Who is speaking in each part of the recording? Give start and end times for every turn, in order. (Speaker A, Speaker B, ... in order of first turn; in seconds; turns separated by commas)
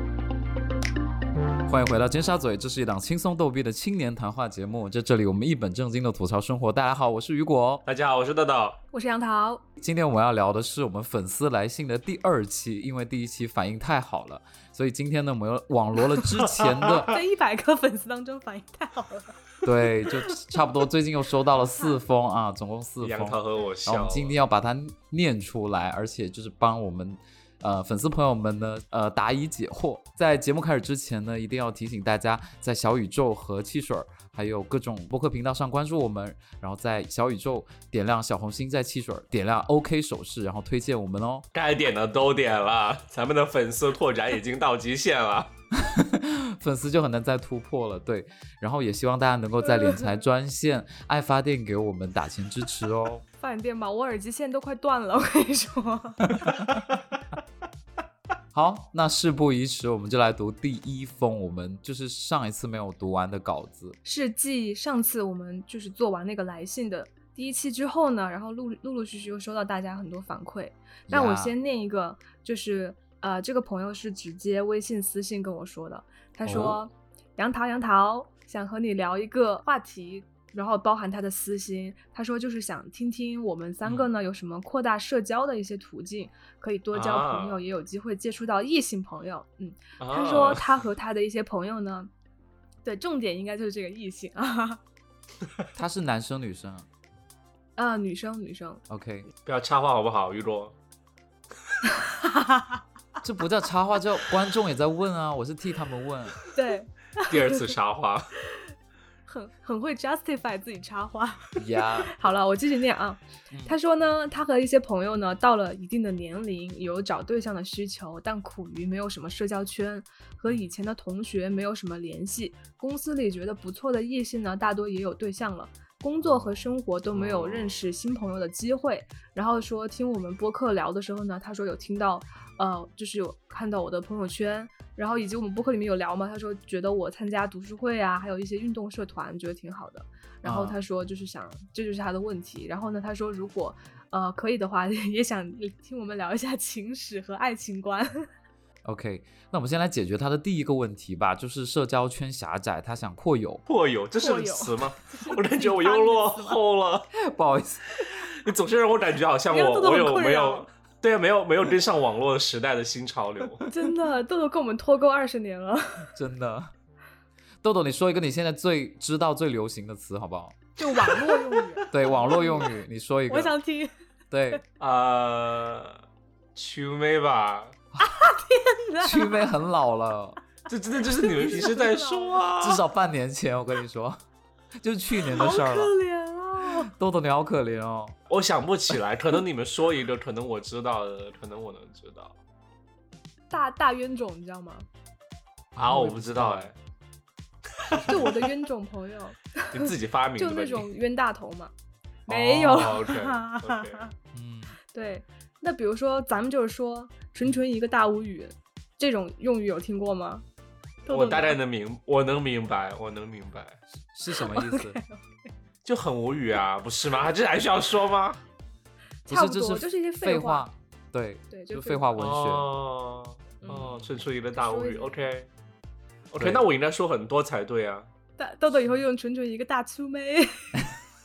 Speaker A: 1.6-7.8, Speaker B: 7.8-8.8, Speaker C: 8.9-9.6, Speaker A: 9.8-17.1, Speaker B: 16.5-17.1, Speaker C: 17.1-19.4, Speaker A: 19.6-41.5, Speaker C: 21.6-22.0, Speaker B: 23.0-24.4, Speaker B: 41.5-45.5, Speaker A: 45.7-53.2, Speaker C: 49.6-50.2, Speaker C: 53.4-56.6, Speaker A: 58.5-64.0, Speaker C: 64.0-92.1, Speaker A: 71.1-71.5, Speaker A: 76.5-76.8, Speaker B: 86.9-87.6, Speaker B: 90.0-90.7, Speaker C: 92.8-94.8, Speaker A: 95.8-96.9, Speaker C: 97.8-98.8, Speaker A: 98.9-99.3, Speaker B: 99.4-100.7, Speaker C: 102.0-102.7, Speaker A: 103.2-106.4, Speaker C: 106.5-107.7, Speaker B: 107.3-108.3, Speaker C: 109.3-148.3, Speaker A: 111.5-112.1, Speaker B: 127.1-127.8, Speaker A: 140.4-140.8, Speaker A: 148.8-153.6, Speaker B: 153.7-157.1, Speaker C: 154.2-156.6, Speaker A: 157.2-158.0, Speaker B: 158.0-163.6, Speaker C: 159.5-160.7, Speaker C: 163.7-166.1, Speaker A: 166.1-166.7, Speaker A: 167.6-170.7, Speaker C: 170.8-172.7, Speaker A: 171.9-173.5, Speaker C: 173.3-173.9, Speaker A: 174.3-174.6, Speaker B: 174.8-176.0, Speaker B: 176.5-177.8, Speaker C: 178.0-179.5, Speaker A: 179.0-180.4, Speaker B: 180.7-182.8, Speaker C: 181.2-182.5, Speaker A: 182.6-184.2, Speaker A: 184.8-185.9, Speaker C: 185.3-186.9, Speaker A: 186.7-188.2, Speaker B: 188.3-192.3, Speaker C: 193.5-194.8, Speaker A: 195.8-196.7, Speaker B: 195.8-196.7, Speaker B: 197.8-198.5, Speaker C: 198.0-201.7, Speaker B: 199.7-200.9, Speaker B: 202.3-204.0, Speaker C: 202.3-204.1, Speaker A: 204.3-204.8, Speaker C: 204.9-210.4, Speaker C: 211.1-211.6, Speaker B: 211.1-213.8, Speaker A: 214.1-215.0, Speaker C: 214.3-215.5, Speaker B: 215.8-218.4, Speaker A: 219.3-222.7, Speaker C: 219.3-220.6, Speaker C: 221.5-222.1, Speaker B: 222.2-225.5, Speaker A: 223.6-224.1, Speaker C: 224.6-225.2, Speaker B: 226.3-228.1, Speaker A: 226.4-226.6, Speaker C: 228.4-230.8